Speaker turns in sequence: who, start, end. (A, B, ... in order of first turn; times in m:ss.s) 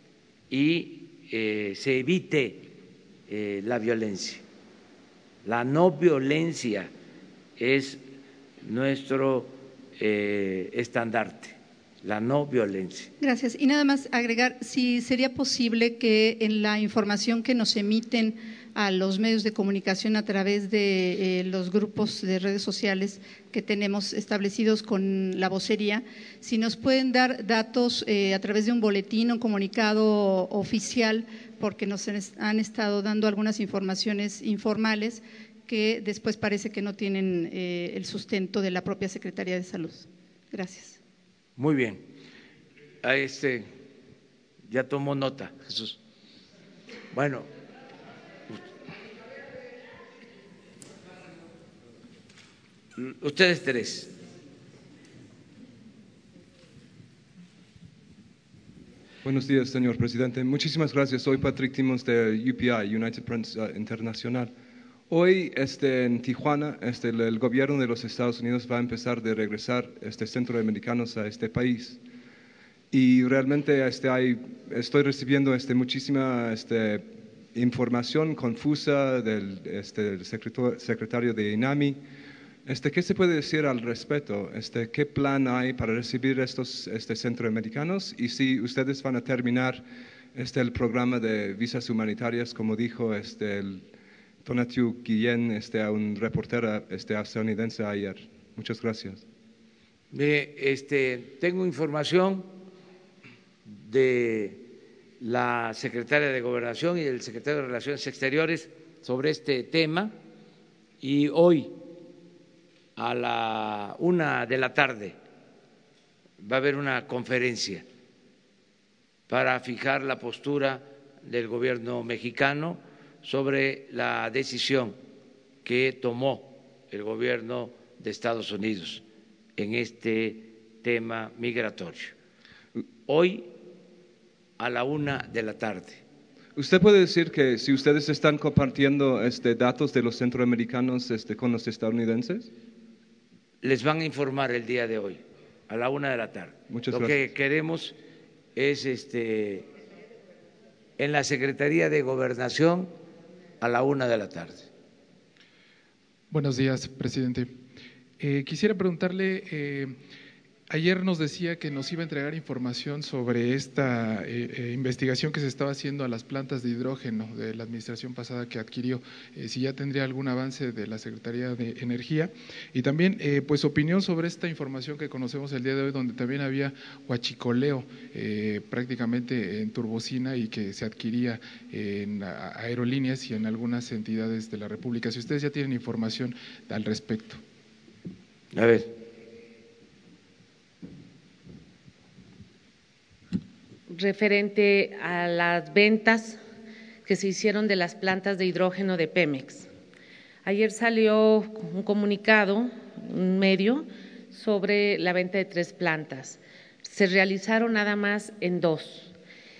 0:00.5-0:02.7 A
0:03.3-0:04.4 A
0:05.4-0:06.9 A
0:07.6-0:08.0 A
0:08.6-0:13.1 A
0:13.2-0:41.0 B
0:41.6-0:42.0 A
0:43.0-0:43.7 A
0:44.7-0:46.0 A
0:47.1-0:47.5 A
0:53.0-0:54.1 A
0:59.2-1:04.5 C
1:05.1-1:12.0 C
1:12.9-1:22.0 C
1:22.6-1:29.8 C
1:30.3-1:33.9 C
1:34.4-1:39.2 C
1:40.1-1:42.5 A
1:43.7-1:44.6 A
1:45.2-1:50.1 A
1:51.0-1:51.8 A
1:53.0-1:55.2 A
1:56.4-1:57.8 A
1:59.3-2:05.0 A
2:05.6-2:09.0 A
2:09.6-2:12.1 A
2:13.1-2:13.5 A
2:14.6-2:16.0 A
2:16.6-2:22.5 C
2:23.6-2:27.9 A
2:26.7-2:27.2 C
2:28.6-2:29.6 A
2:31.0-2:32.9 A
2:33.6-2:34.7 A
2:36.3-2:37.6 D
2:38.2-2:40.0 D
2:40.7-3:07.4 D
3:08.5-3:08.9 A
3:13.9-3:16.4 E
3:17.0-3:19.7 E
3:20.4-3:29.1 E